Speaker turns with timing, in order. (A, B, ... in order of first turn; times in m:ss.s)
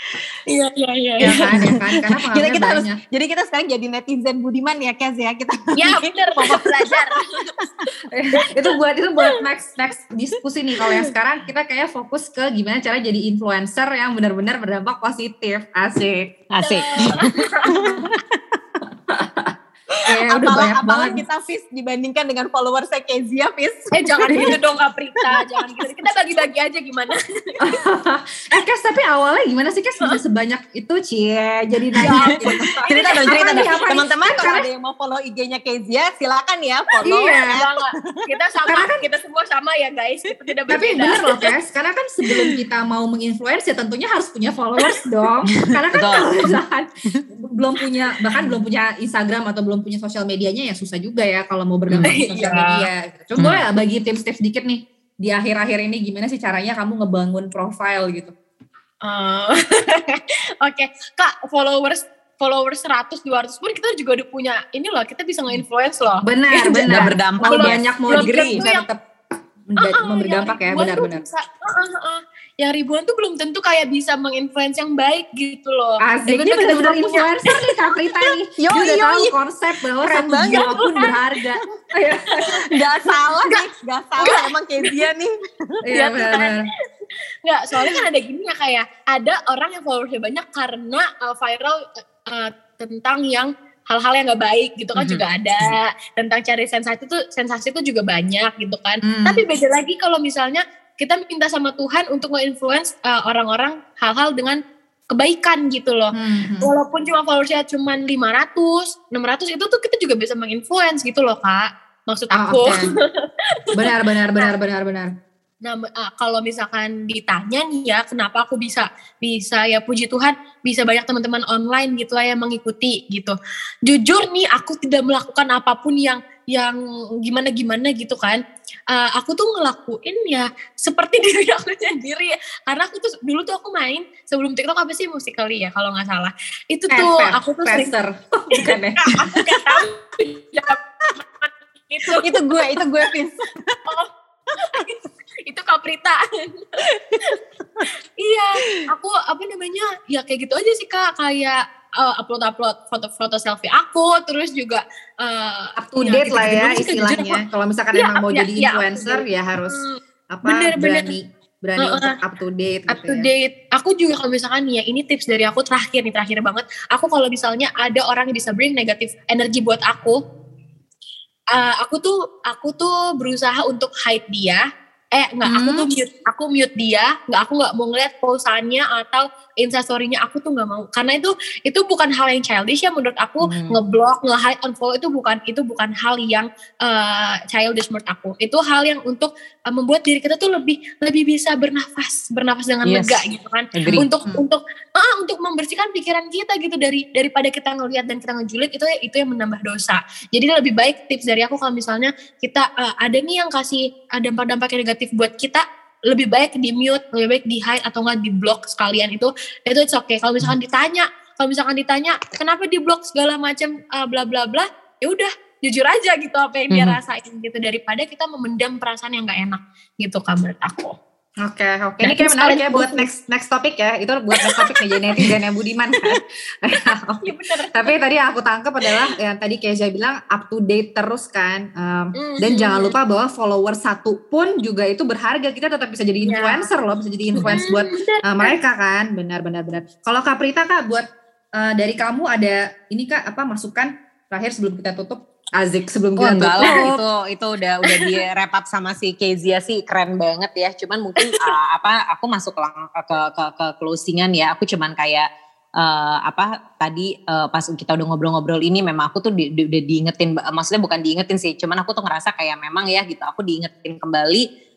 0:00.5-0:01.7 A
0:01.2-0:03.0 B
0:01.3-0:01.7 C
0:02.3-0:07.6 C
0:05.8-0:07.5 A
0:08.1-0:16.3 B
0:10.8-0:11.1 A
0:16.5-0:18.4 C
0:16.6-0:17.8 A
0:17.7-0:18.1 B
0:19.1-0:19.5 B
0:20.1-0:21.2 B
0:20.3-0:24.6 C
0:24.0-0:27.6 A
0:24.3-0:24.6 B
0:25.2-0:25.9 C
0:27.6-0:34.7 B
0:32.0-0:33.9 A
0:32.0-0:38.2 C
0:37.0-0:37.6 B
0:37.5-0:41.5 A
0:38.7-0:39.1 B
0:40.7-0:58.3 B
0:45.6-0:46.6 C
0:52.0-0:52.9 A
0:59.0-1:08.9 A
1:06.2-1:11.2 B
1:06.9-1:08.6 C
1:09.8-1:18.3 A
1:16.0-1:22.7 B
1:18.6-1:19.3 C
1:20.0-1:20.8 C
1:20.4-1:21.2 A
1:22.6-1:25.8 C
1:24.2-1:25.0 A
1:25.8-1:26.7 B
1:25.9-1:26.7 A
1:27.4-1:44.6 A
1:34.9-1:35.7 C
1:39.0-1:39.4 B
1:45.1-1:54.5 A
1:46.1-1:46.7 B
1:52.3-1:52.9 B
1:53.7-1:55.1 B
1:55.6-2:17.9 A
2:16.9-2:19.0 B
2:18.5-2:23.1 A
2:19.1-2:19.6 C
2:22.0-2:23.8 C
2:23.8-2:27.4 A
2:28.2-2:37.4 A
2:35.8-2:39.8 B
2:37.9-2:41.1 A
2:40.3-2:43.3 B
2:41.8-2:42.2 A
2:42.9-2:50.2 A
2:51.5-2:54.6 A
2:55.1-3:41.0 A
2:55.4-2:55.9 B
3:03.4-3:03.8 C
3:12.8-3:13.2 C
3:13.7-3:14.0 C
3:14.0-3:14.4 B
3:36.7-3:37.0 C
3:41.4-3:47.2 B
3:42.0-3:43.1 A
3:44.4-3:45.2 A
3:47.2-3:48.0 A
3:47.7-4:07.0 B
3:52.2-3:52.9 A
3:56.2-3:56.7 A
3:57.4-3:58.5 A
4:06.2-4:15.3 C
4:06.6-4:06.8 A
4:11.2-4:11.5 A
4:15.8-4:24.5 C